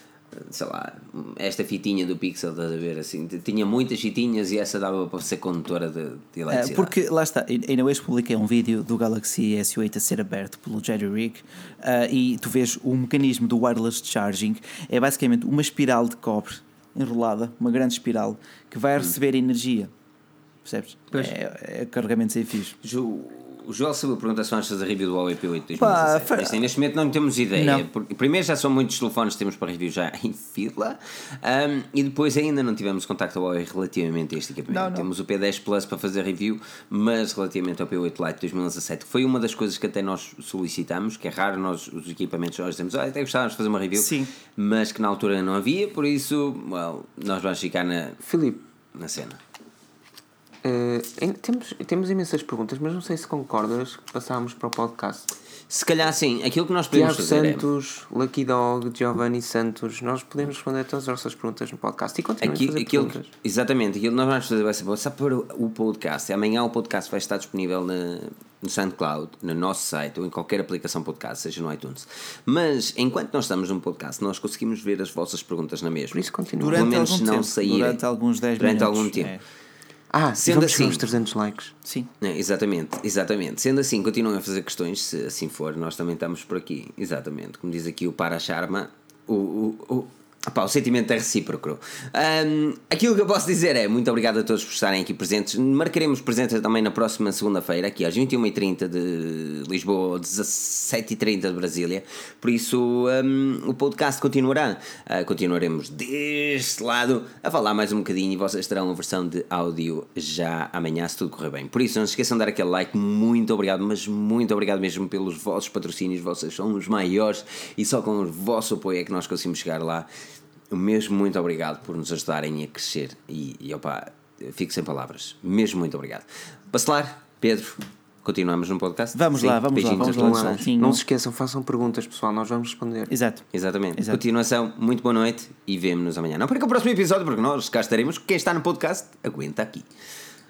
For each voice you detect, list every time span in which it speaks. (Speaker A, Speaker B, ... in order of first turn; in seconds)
Speaker A: 0.3-6.9, 22.8-48.2, 48.9-49.4, 55.7-57.7, 62.4-78.0, 78.6-79.3, 80.4-81.1, 82.2-120.1, 120.7-130.6, 133.5-139.9
Speaker B: 6.5-19.9, 20.6-22.8, 25.7-26.6, 27.5-27.8, 34.7-35.1, 43.9-44.3, 76.6-79.4, 81.8-82.1, 129.1-131.0, 133.1-134.2
Speaker C: 48.2-48.6, 50.6-55.3, 56.9-63.3, 76.1-76.9, 80.1-81.7, 129.9-133.1